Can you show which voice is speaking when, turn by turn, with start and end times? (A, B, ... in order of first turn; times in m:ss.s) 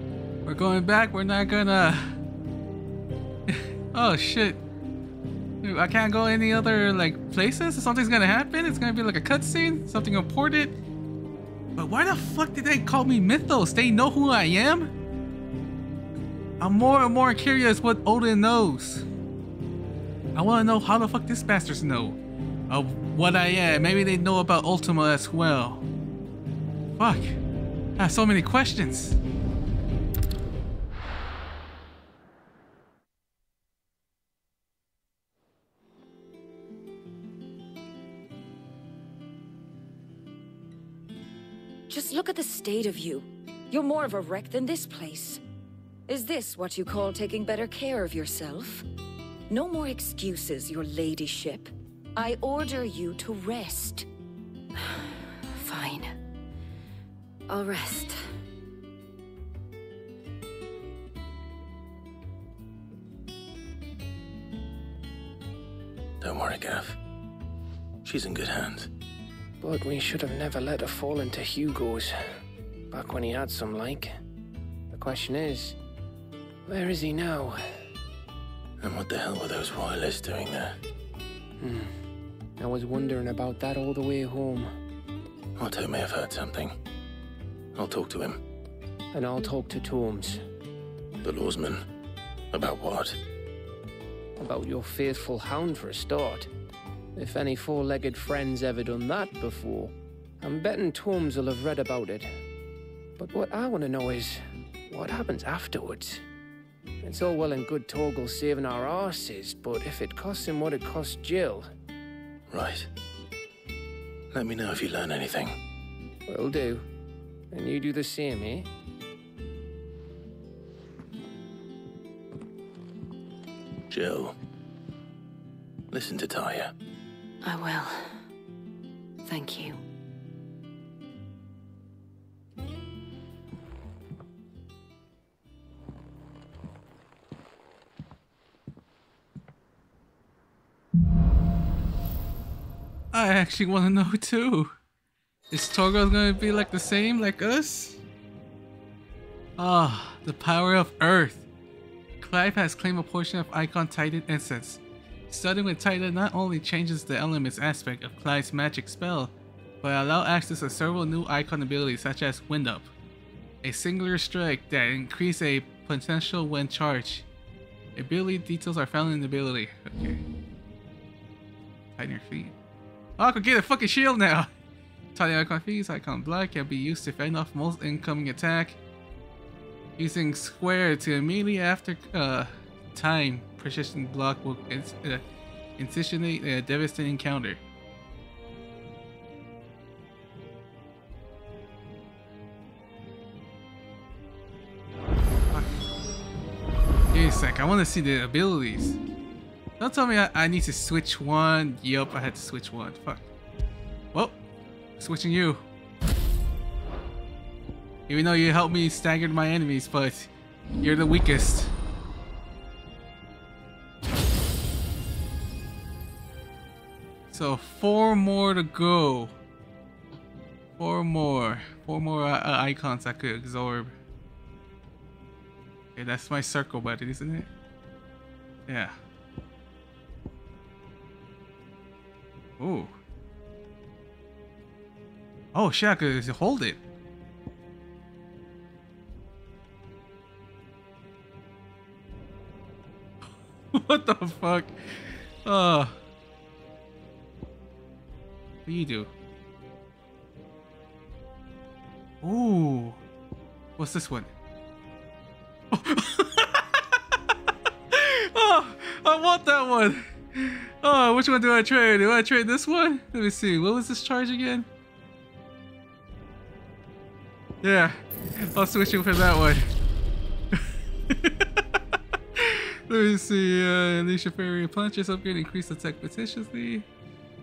0:00.4-0:02.2 A
0:03.5-0:04.6 A
0:05.6-0:10.7 A
0:11.8-0:14.9 A
0:16.6-0:19.0 A
0:20.3-0:22.2 A
0:22.7-0:25.8 A
0:27.0-0:27.4 A
0:28.0-0:29.2 A
0:41.9-0:45.4 B
0:46.1-0:48.8 B
0:49.5-0:54.1 B
0:54.7-0:56.1 B
0:57.5-0:58.2 B
1:06.2-1:07.0 C
1:08.0-1:08.9 C
1:09.6-1:12.3 D
1:12.9-1:14.2 D
1:14.9-1:15.8 D
1:16.6-1:17.6 D
1:18.8-1:20.8 C
1:21.6-1:21.9 D
1:22.6-1:24.7 D
1:25.6-1:26.8 C
1:27.7-1:28.4 C
1:29.1-1:30.4 D
1:31.2-1:31.8 C
1:32.5-1:33.2 C
1:34.4-1:36.5 D
1:37.2-1:42.4 D
1:43.2-1:46.2 D
1:47.0-1:51.7 D
1:52.5-1:52.9 C
1:54.3-1:55.6 C
1:56.3-1:56.8 D
1:57.5-1:58.7 D
2:03.9-2:04.3 C
2:05.9-2:06.7 C
2:07.4-2:08.2 B
2:09.2-2:09.8 B
2:23.1-2:24.7 A
2:25.5-2:28.0 A
2:29.6-2:31.4 A
2:32.2-2:42.9 A
2:43.6-2:47.2 A
2:48.0-2:50.2 A
2:52.0-2:52.5 A
2:53.2-2:54.5 A
2:55.1-2:58.8 A
3:00.0-3:05.2 A
3:05.8-3:07.6 A
3:17.1-3:19.0 A
3:19.8-3:23.2 A
3:25.0-3:25.6 A
3:28.1-3:30.3 A
3:30.8-3:31.7 A
3:37.3-3:39.3 A
3:40.8-3:43.9 A
3:46.0-3:47.5 A
3:48.7-3:49.0 A
3:52.6-3:52.9 A
3:55.5-3:56.8 A
4:03.7-4:06.0 A
4:08.6-4:09.1 A
4:12.2-4:13.0 A
4:13.8-4:14.3 A
4:15.7-4:17.0 A
4:17.9-4:24.6 A
4:27.6-4:29.7 A
4:31.1-4:31.8 A
4:32.4-4:36.8 A